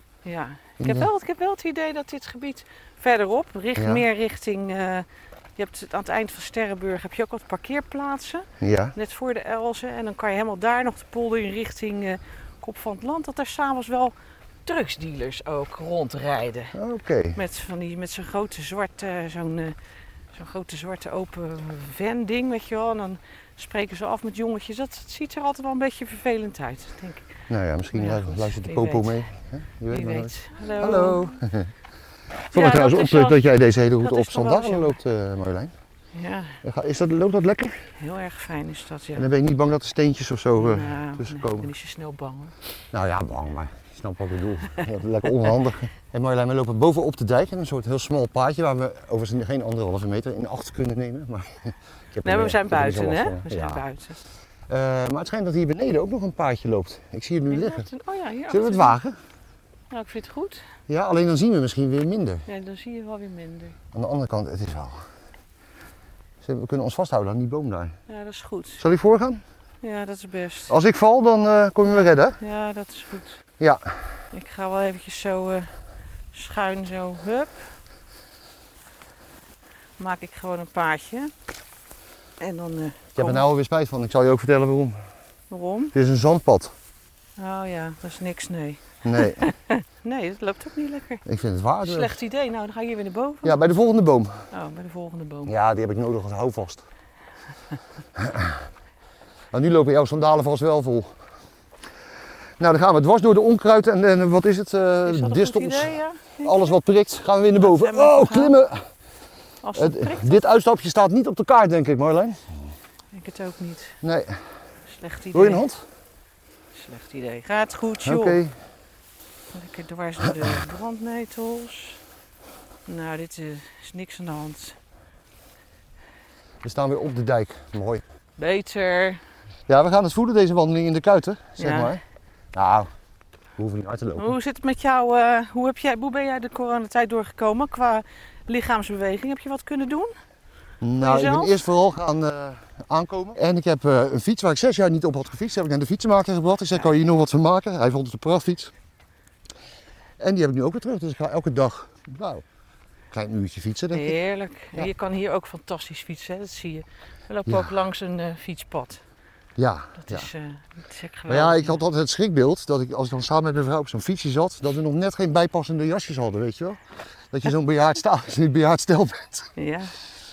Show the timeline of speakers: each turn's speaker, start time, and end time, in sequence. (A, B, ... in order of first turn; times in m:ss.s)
0:00.2-0:05.0 A
0:00.8-0:01.1 B
0:03.8-0:04.0 B
0:05.6-0:14.1 A
0:08.6-0:08.9 B
0:14.6-0:16.7 A
0:16.7-0:17.4 B
0:17.3-0:19.8 A
0:20.3-0:27.3 A
0:27.5-0:31.7 B
0:27.9-0:29.2 A
0:29.9-0:31.4 A
0:32.5-0:33.4 A
0:32.5-0:35.7 B
0:34.0-0:34.9 A
0:36.1-0:36.6 A
0:36.6-0:37.9 B
0:38.0-0:39.3 A
0:39.2-0:41.7 B
0:40.6-0:42.5 A
0:42.9-0:53.8 B
0:52.2-0:54.2 A
0:54.7-0:57.8 B
0:57.5-0:58.9 A
0:58.5-0:59.2 B
0:59.9-1:00.6 A
1:00.9-1:02.4 B
1:02.5-1:03.8 A
1:03.9-1:05.0 B
1:06.4-1:07.9 B
1:08.1-1:08.8 A
1:08.8-1:09.4 B
1:09.8-1:10.7 A
1:10.7-1:12.4 B
1:11.9-1:13.4 A
1:13.6-1:14.1 B
1:14.3-1:15.7 A
1:16.3-1:17.6 A
1:20.0-1:21.3 A
1:22.4-1:23.4 A
1:23.2-1:25.0 B
1:25.5-1:25.9 A
1:25.9-1:26.7 B
1:27.4-1:31.2 A
1:29.0-1:29.4 B
1:31.2-1:32.2 B
1:31.8-1:33.6 A
1:33.4-1:34.4 B
1:34.5-1:35.5 A
1:35.4-1:36.8 B
1:38.1-1:38.6 B
1:39.5-1:41.2 B
1:42.6-1:48.8 B
1:45.0-1:46.7 A
1:47.6-1:48.6 A
1:49.6-1:50.4 A
1:49.7-1:52.5 B
1:53.1-1:54.0 A
1:54.0-1:54.4 B
1:54.9-1:55.6 A
1:55.3-1:55.8 B
1:56.8-1:58.4 A
1:58.0-1:58.5 B
1:59.5-2:02.0 A
2:02.9-2:04.8 A
2:06.6-2:08.0 B
2:08.4-2:09.2 A
2:09.7-2:12.0 B
2:11.6-2:11.9 A
2:12.5-2:12.9 B
2:13.6-2:14.3 B
2:14.2-2:20.1 A
2:20.8-2:28.7 B
2:21.0-2:21.5 A
2:30.2-2:32.4 B
2:33.1-2:34.2 B
2:33.9-2:39.0 A
2:37.5-2:37.7 B
2:39.6-2:40.3 B
2:40.0-2:41.8 A
2:41.3-2:49.5 B
2:49.6-2:49.9 A